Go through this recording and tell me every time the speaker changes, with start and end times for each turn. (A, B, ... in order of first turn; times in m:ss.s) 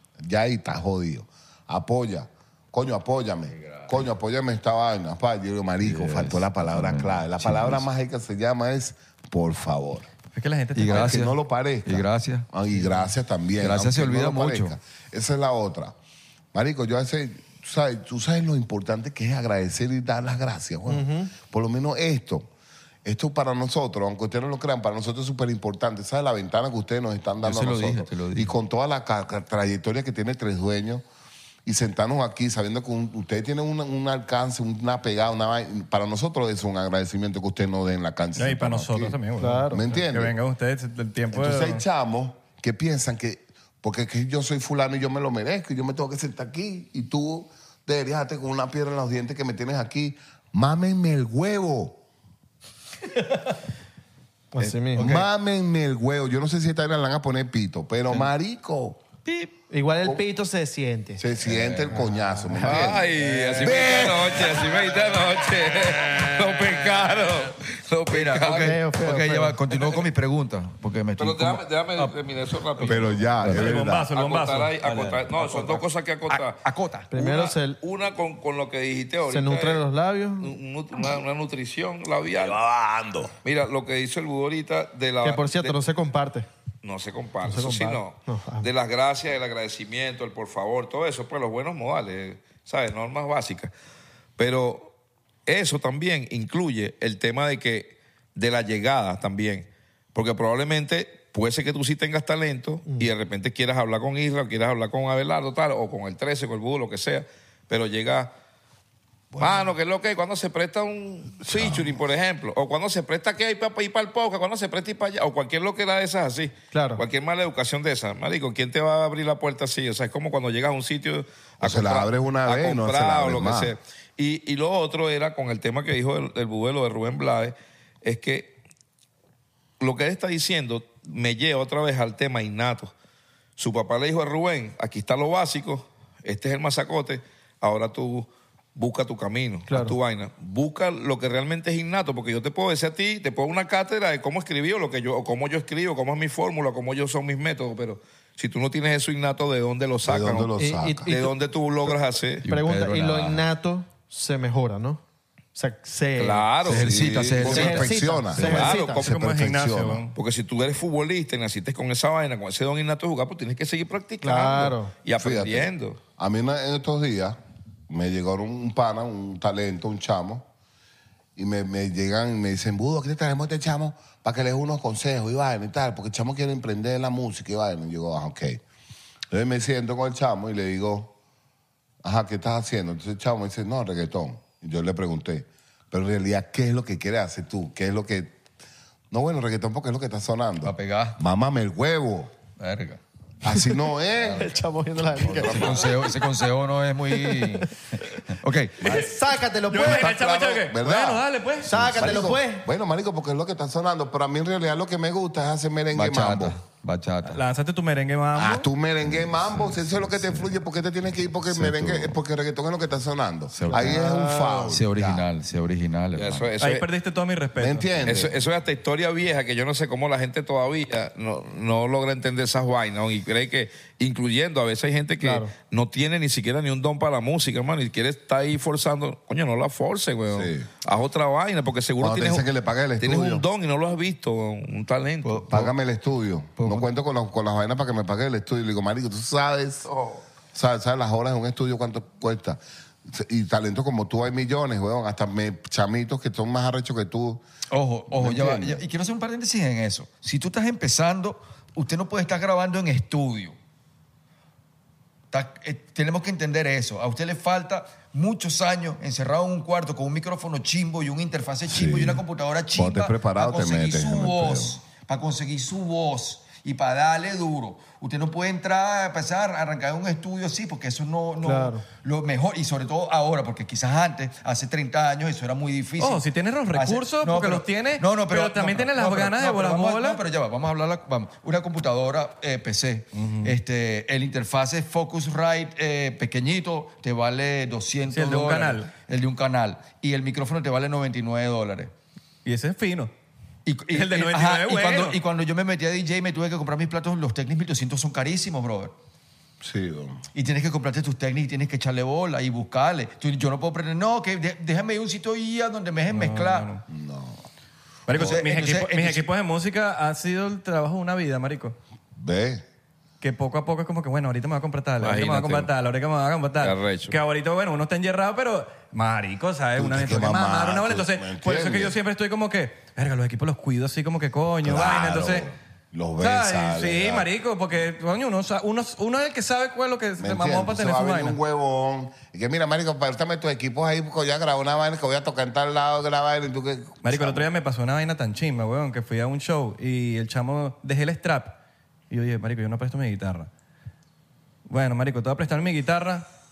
0:00.2-0:10.1 A
0:03.5-0:04.0 B
0:05.8-0:07.8 B
0:10.3-0:11.2 C
0:10.8-0:13.0 B
0:10.9-0:16.0 A
0:13.6-0:14.8 B
0:16.5-0:22.5 A
0:20.9-0:21.3 D
0:23.0-0:31.0 A
0:27.4-0:28.6 B
0:31.7-0:40.4 A
0:38.4-0:41.8 C
0:39.4-0:39.8 D
0:41.3-0:52.0 A
0:54.5-0:55.1 D
0:54.6-0:55.3 B
0:55.0-0:59.0 A
0:59.2-0:59.6 B
0:59.7-1:01.3 D
1:01.2-1:03.1 A
1:01.4-1:02.0 B
1:01.9-1:02.8 D
1:02.6-1:08.8 E
1:02.6-1:04.4 B
1:03.6-1:04.6 A
1:08.1-1:12.2 B
1:08.5-1:09.6 D
1:09.7-1:10.1 E
1:11.2-1:13.3 E
1:12.8-1:13.8 B
1:12.8-1:14.1 A
1:13.5-1:14.7 C
1:14.0-1:16.6 E
1:14.8-1:17.1 B
1:17.1-1:17.8 D
1:17.2-1:19.8 E
1:19.3-1:20.5 D
1:20.4-1:22.6 E
1:22.4-1:23.3 A
1:23.4-1:25.8 E
1:25.2-1:26.5 D
1:26.8-1:33.7 E
1:27.4-1:28.7 D
1:34.4-1:34.9 E
1:35.5-1:48.3 E
1:49.3-1:49.7 A
1:49.4-2:08.6 E
1:51.4-1:52.0 A
1:56.7-1:57.0 D
2:01.6-2:03.8 A
2:09.8-2:12.9 E
2:13.6-2:30.5 E
2:19.7-2:20.0 D
2:30.0-2:31.1 A
2:30.6-2:31.3 D
2:31.1-2:32.4 E
2:31.9-2:35.0 D
2:32.4-2:33.5 B
2:35.6-2:36.6 D
2:36.2-2:37.8 E
2:36.6-2:38.0 B
2:36.7-2:40.1 A
2:37.5-2:39.0 D
2:38.4-2:39.1 E
2:39.0-2:40.1 C
2:40.2-2:46.0 E
2:44.2-2:44.9 D
2:45.2-2:47.4 A
2:47.9-2:50.4 A
2:51.4-2:58.6 A
2:59.3-3:01.1 A
3:02.0-3:08.4 A
3:09.1-3:12.3 A
3:10.6-3:11.2 B
3:12.6-3:13.0 B
3:13.4-3:14.6 A
3:13.5-3:16.3 D
3:15.2-3:15.9 A
3:15.2-3:19.1 B
3:17.1-3:17.7 D
3:18.8-3:19.1 A
3:18.8-3:20.1 D
3:19.7-3:22.3 C
3:19.7-3:26.6 A
3:21.6-3:22.7 D
3:25.9-3:27.4 B
3:27.2-3:28.7 C
3:28.4-3:35.2 A
3:29.0-3:30.6 B
3:31.4-3:32.2 B
3:33.5-3:34.1 B
3:33.7-3:34.8 D
3:34.7-3:36.5 B
3:36.2-3:36.9 E
3:36.6-3:37.9 C
3:37.6-3:38.4 A
3:38.0-3:52.5 E
3:45.2-3:45.5 D
3:50.3-3:50.7 A
3:52.0-3:53.4 A
3:53.0-3:55.6 E
3:55.2-3:55.7 B
3:55.5-3:59.9 A
3:56.6-3:56.9 B
3:59.9-4:00.2 E
4:00.5-4:07.4 A
4:07.7-4:13.6 B
4:08.1-4:08.8 A
4:15.3-4:51.9 B
4:21.7-4:22.2 A
4:22.8-4:24.8 A
4:31.4-4:31.8 D
4:36.0-4:40.2 C
4:43.1-4:43.5 C
4:48.1-4:48.9 C
4:52.4-4:53.1 C
4:53.7-4:59.0 B
4:53.9-4:55.2 C
4:59.6-5:00.2 A
5:00.3-5:06.7 B
5:06.1-5:06.8 C
5:06.9-5:07.4 A
5:08.1-5:11.8 C
5:08.1-5:09.2 B
5:12.2-5:12.6 A
5:13.2-5:25.5 C
5:15.0-5:15.7 E
5:16.6-5:17.2 E
5:19.8-5:22.0 A
5:24.6-5:27.3 A
5:26.2-5:31.4 C
5:30.2-5:37.5 A
5:37.0-5:41.6 C
5:42.1-5:43.5 C
5:44.7-5:46.2 C